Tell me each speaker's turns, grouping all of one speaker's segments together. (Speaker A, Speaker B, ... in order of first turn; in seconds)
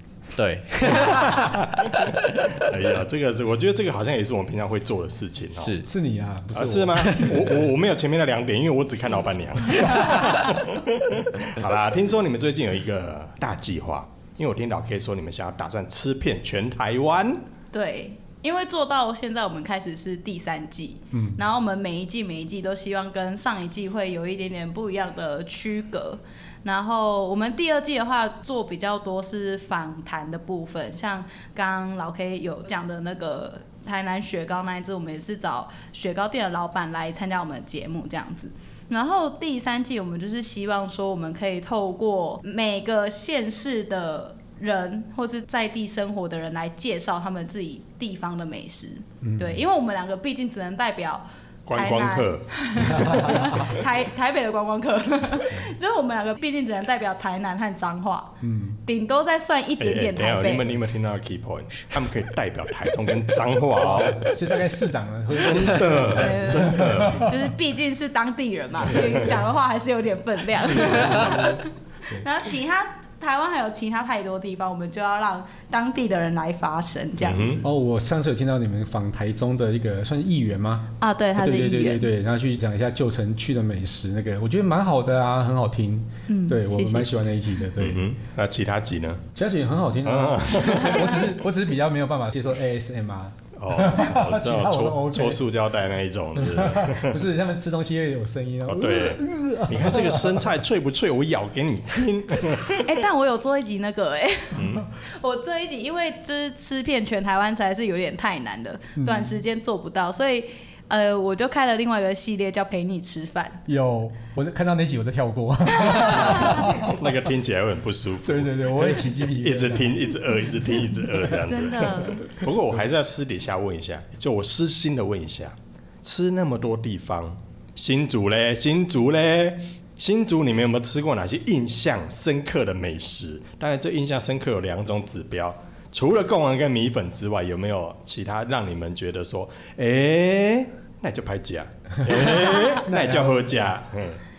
Speaker A: 0.4-2.6, 5.6-5.9
Speaker B: 0.9-5.8, 6.5-17.4, 51.7-53.4, 59.8-64.4, 65.3-67.3, 77.2-77.6, 87.8-89.2, 90.0-91.2, 93.6-97.2, 98.7-102.9, 104.5-104.9, 116.6-144.2
Speaker C: 5.9-7.4, 21.1-21.4, 49.2-49.6, 53.0-53.6, 58.4-58.8, 63.8-67.4, 68.9-69.3, 70.6-72.2, 77.6-88.0, 89.3-95.4, 96.4-100.4, 109.0-109.3, 113.7-117.0, 118.3-120.1, 142.9-143.5
Speaker D: 17.7-60.7, 66.1-71.7, 72.2-77.6, 81.0-82.1, 86.3-87.1, 102.8-113.6, 115.8-116.7, 121.4-122.4, 142.3-142.8